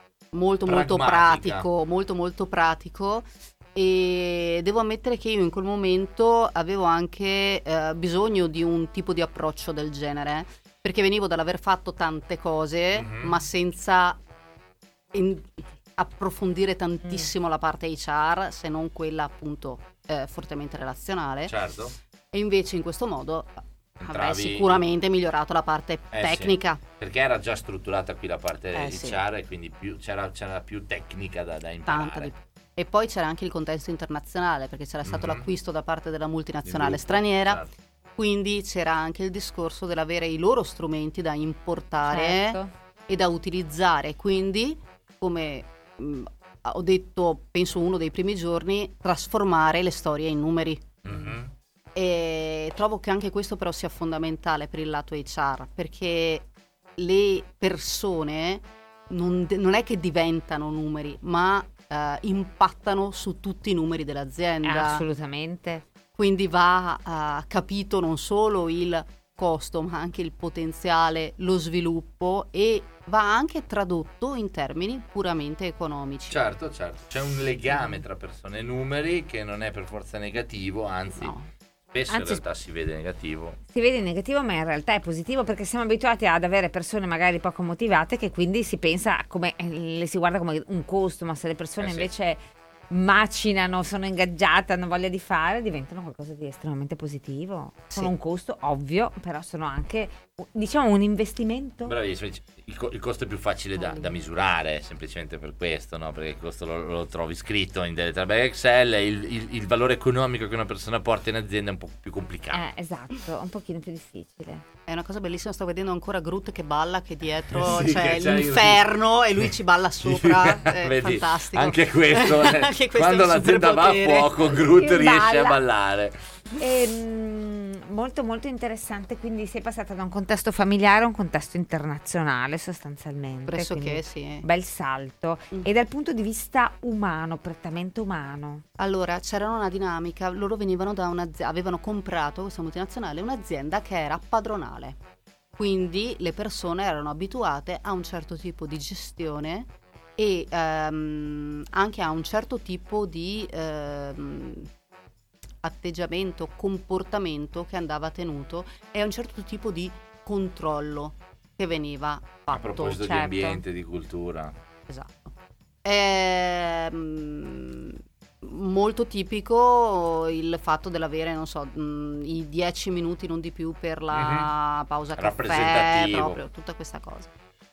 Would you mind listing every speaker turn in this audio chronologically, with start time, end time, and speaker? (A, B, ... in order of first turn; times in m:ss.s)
0:00.3-0:14.2 A
0:00.7-0:01.7 B
0:12.9-0:13.4 B
0:15.1-0:21.6 A
0:21.4-0:22.0 B
0:22.3-0:26.8 A
0:24.0-0:24.8 B
0:26.1-0:32.3 B
0:28.7-0:29.2 A
0:31.9-0:37.6 A
0:35.0-0:35.5 B
0:36.6-0:37.7 B
0:38.2-0:51.3 A
0:42.1-0:42.7 C
0:51.0-0:51.5 B
0:52.0-0:56.4 A
0:57.0-1:05.0 A
1:04.6-1:05.8 C
1:06.1-1:16.4 A
1:16.3-1:21.4 B
1:21.1-1:21.4 A
1:21.9-1:23.6 B
1:22.1-1:22.4 C
1:23.7-1:32.4 C
1:31.8-1:32.1 B
1:32.9-1:42.0 C
1:41.9-1:52.6 B
1:52.5-1:54.6 C
1:54.9-2:04.4 A
1:57.5-1:58.9 B
2:00.0-2:06.2 B
2:04.6-2:05.6 C
2:06.6-2:18.6 C
2:13.5-2:14.4 A
2:18.8-2:25.0 A
2:25.6-2:34.7 A
2:35.6-2:43.0 A
2:42.5-2:44.6 B
2:43.0-2:43.6 C
2:44.9-2:45.3 A
2:45.8-2:57.3 A
2:54.1-2:54.5 B
2:55.2-2:56.4 B